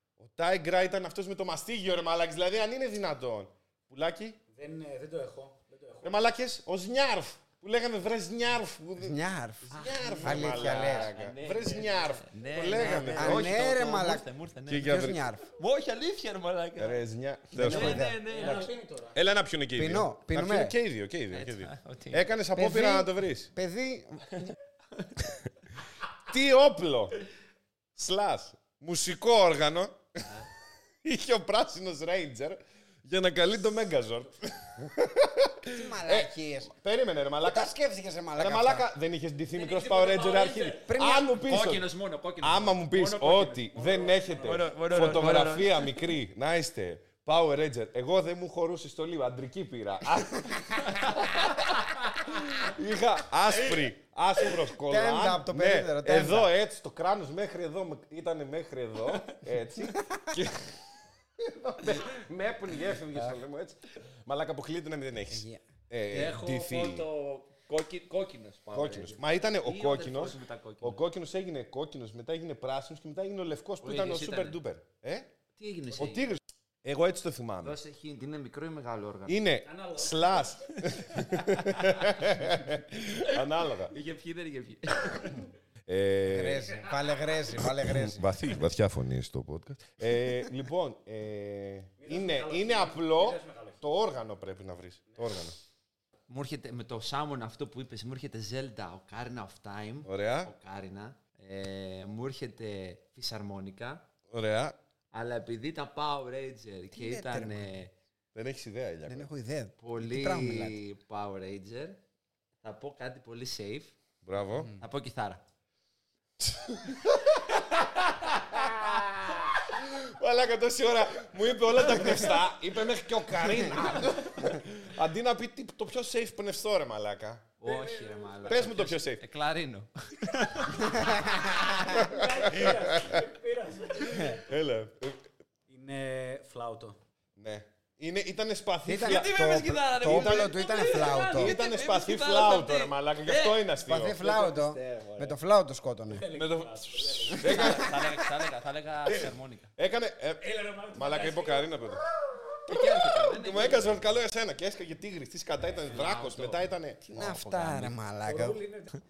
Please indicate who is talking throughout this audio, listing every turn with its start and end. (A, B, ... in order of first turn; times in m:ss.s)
0:00.2-0:04.4 A
0:04.5-0:06.1 B
0:06.0-0:13.6 A
0:09.0-0:11.1 C
0:09.7-0:15.0 D
0:13.1-0:14.2 C
0:14.7-0:15.2 A
0:14.8-0:15.5 C
0:15.5-0:17.0 D
0:16.8-0:18.0 A
0:17.5-0:18.7 C
0:17.6-0:18.7 D
0:18.2-0:19.2 B
0:19.1-0:23.5 A
0:19.8-0:20.7 C
0:21.3-0:22.3 D
0:22.5-0:24.4 C
0:26.2-0:27.2 A
0:27.9-0:30.3 A
0:31.0-0:37.7 A
0:35.7-0:36.7 C
0:37.4-0:38.8 C
0:38.4-0:41.8 A
0:39.5-0:40.9 B
0:40.8-0:41.4 C
0:41.4-0:43.8 D
0:42.4-1:00.7 A
0:43.7-0:45.2 B
0:44.4-0:45.9 D
0:54.8-0:56.5 C
1:01.4-1:07.0 A
1:05.3-1:05.6 C
1:06.1-1:11.0 D
1:08.7-1:15.3 A
1:13.8-1:14.6 D
1:15.6-1:16.3 D
1:16.0-1:17.8 A
1:17.6-1:19.4 D
1:19.3-1:23.9 A
1:19.6-1:20.4 B
1:23.9-1:25.5 D
1:25.9-1:26.7 A
1:26.2-1:28.3 C
1:27.6-1:35.6 A
1:32.0-1:33.8 B
1:36.3-1:44.0 D
1:40.0-1:40.5 A
1:44.3-1:44.8 A
1:45.1-1:47.9 D
1:46.9-1:47.7 C
1:48.3-1:49.3 A
1:49.1-1:50.8 C
1:49.8-1:52.0 D
1:52.6-1:53.9 D
1:54.2-1:54.7 A
1:54.8-1:55.4 D
1:56.4-2:07.4 A
1:58.3-1:58.6 D
2:03.7-2:04.2 D
2:07.6-2:11.1 D
2:07.6-2:08.7 B
2:08.4-2:09.2 A
2:10.8-2:12.0 C
2:11.4-2:14.4 B
2:11.8-2:13.2 A
2:14.1-2:15.2 A
2:15.7-2:17.0 B
2:17.4-2:19.3 A
2:18.8-2:21.5 C
2:19.0-2:23.6 D
2:20.0-2:20.6 A
2:21.3-2:24.2 A
2:23.9-2:26.3 C
2:24.2-2:25.4 D
2:26.1-2:27.8 B
2:26.3-2:28.0 A
2:27.4-2:28.1 C
2:27.4-2:29.7 D
2:29.8-2:32.0 A
2:30.4-2:31.8 B
2:32.6-2:34.0 D
2:32.8-2:37.0 A
2:35.6-2:37.9 D
2:37.0-2:38.6 C
2:38.2-2:38.9 B